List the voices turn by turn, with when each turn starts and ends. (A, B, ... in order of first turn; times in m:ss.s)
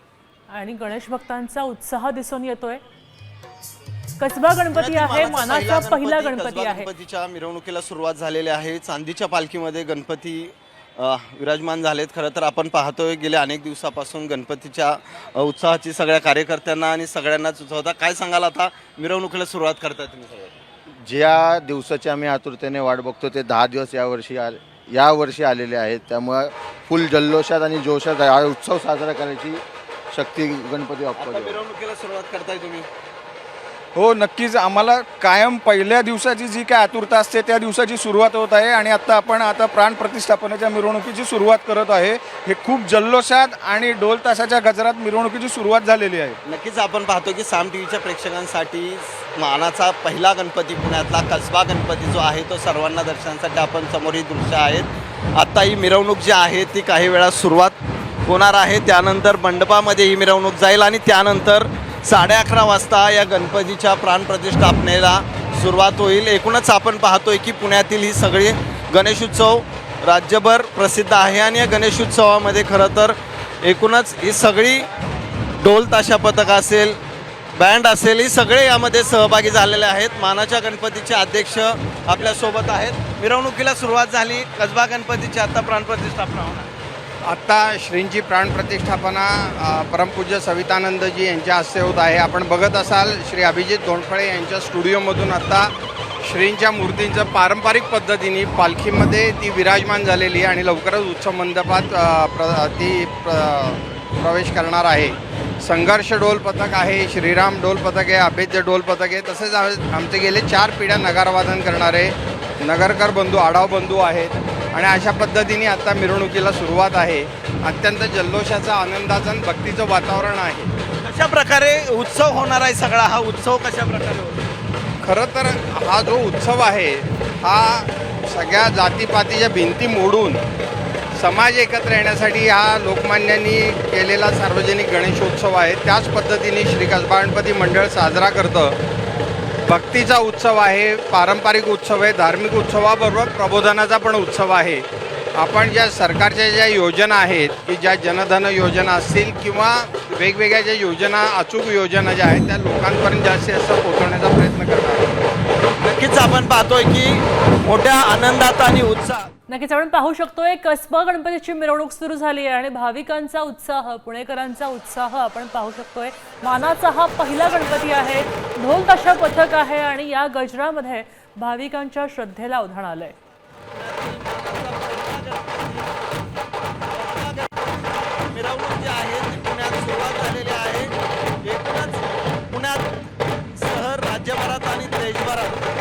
0:00.5-0:02.8 A
0:04.2-0:06.9 A
0:04.7-0:20.5 B
0:20.9-0:31.6 C
0:31.2-0:32.9 B
0:33.9-0:46.4 D
0:46.4-1:14.8 B
1:15.6-1:17.0 B
1:17.6-1:26.7 B
1:27.2-2:00.7 E
2:01.0-2:04.4 B
2:05.0-2:10.4 E
2:11.2-2:18.8 E
2:19.7-2:35.3 E
2:35.8-2:39.3 B
2:39.5-2:53.1 A
2:47.5-2:48.0 B
2:53.7-2:56.0 B
2:56.9-3:05.6 B